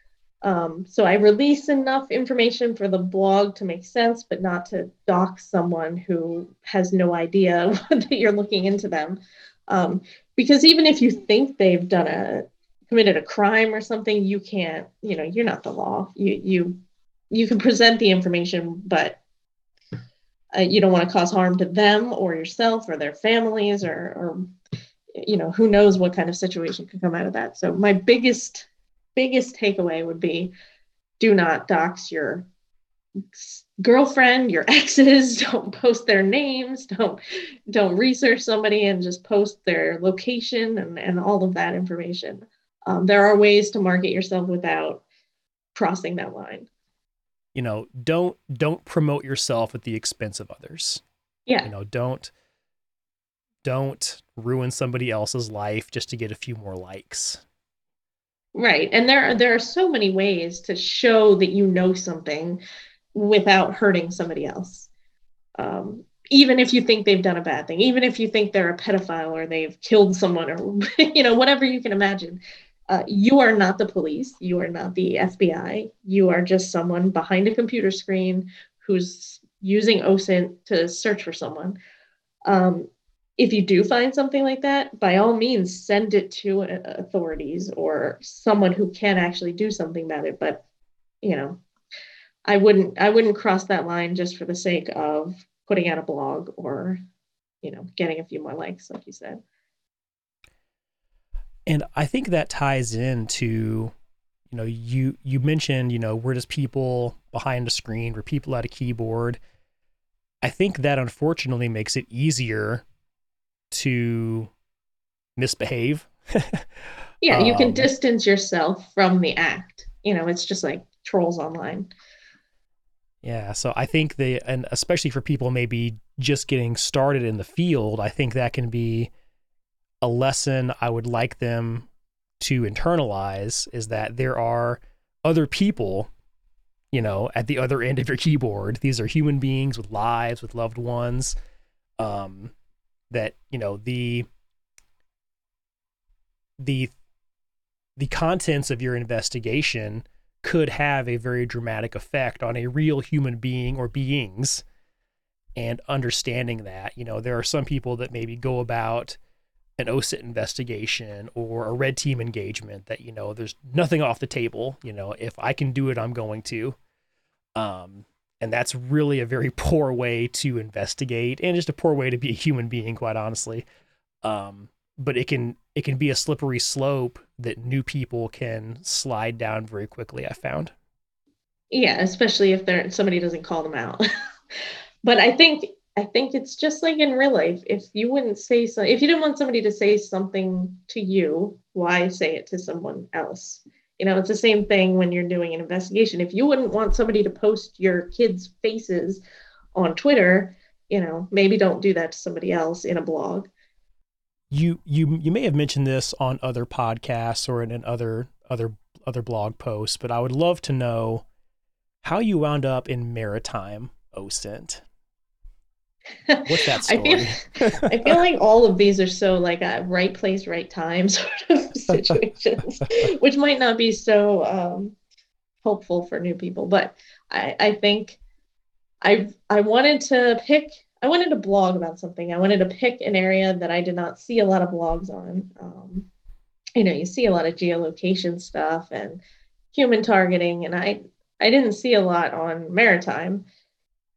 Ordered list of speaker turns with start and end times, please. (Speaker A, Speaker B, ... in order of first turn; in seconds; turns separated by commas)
Speaker A: 0.4-19.2, Speaker A: 20.5-24.5, Speaker A: 25.2-30.5, Speaker A: 31.2-32.5, Speaker A: 33.3-37.2, Speaker A: 37.7-45.0, Speaker A: 45.7-46.7, Speaker B: 47.5-51.0, Speaker B: 51.6-52.3, Speaker B: 53.6-57.4, Speaker A: 58.5-62.6, Speaker A: 63.1-64.9, Speaker A: 65.6-81.8, Speaker A: 82.5-90.6, Speaker A: 91.2-91.6, Speaker A: 92.5-97.0, Speaker A: 97.6-99.4, Speaker B: 101.7-103.9, Speaker B: 104.5-109.4, Speaker B: 110.4-112.8, Speaker B: 113.7-114.5, Speaker B: 115.4-116.7, Speaker A: 117.2-121.9, Speaker B: 117.3-117.9, Speaker B: 123.2-129.1, Speaker B: 130.0-131.9, Speaker B: 132.4-136.1, Speaker B: 136.9-141.3, Speaker B: 142.0-142.5, Speaker B: 143.1-144.3, Speaker B: 146.6-146.9, Speaker B: 147.9-154.6, Speaker B: 155.6-159.2, Speaker B: 159.8-166.8, Speaker B: 167.6-173.7, Speaker B: 174.2-180.7, Speaker A: 181.7-184.0, Speaker A: 185.0-199.2, Speaker A: 199.7-203.5, Speaker B: 204.5-211.2, Speaker B: 212.0-214.8, Speaker A: 216.3-225.0, Speaker B: 216.4-218.2, Speaker A: 225.6-228.2, Speaker A: 229.0-236.1, Speaker A: 236.8-239.2, Speaker A: 239.7-243.4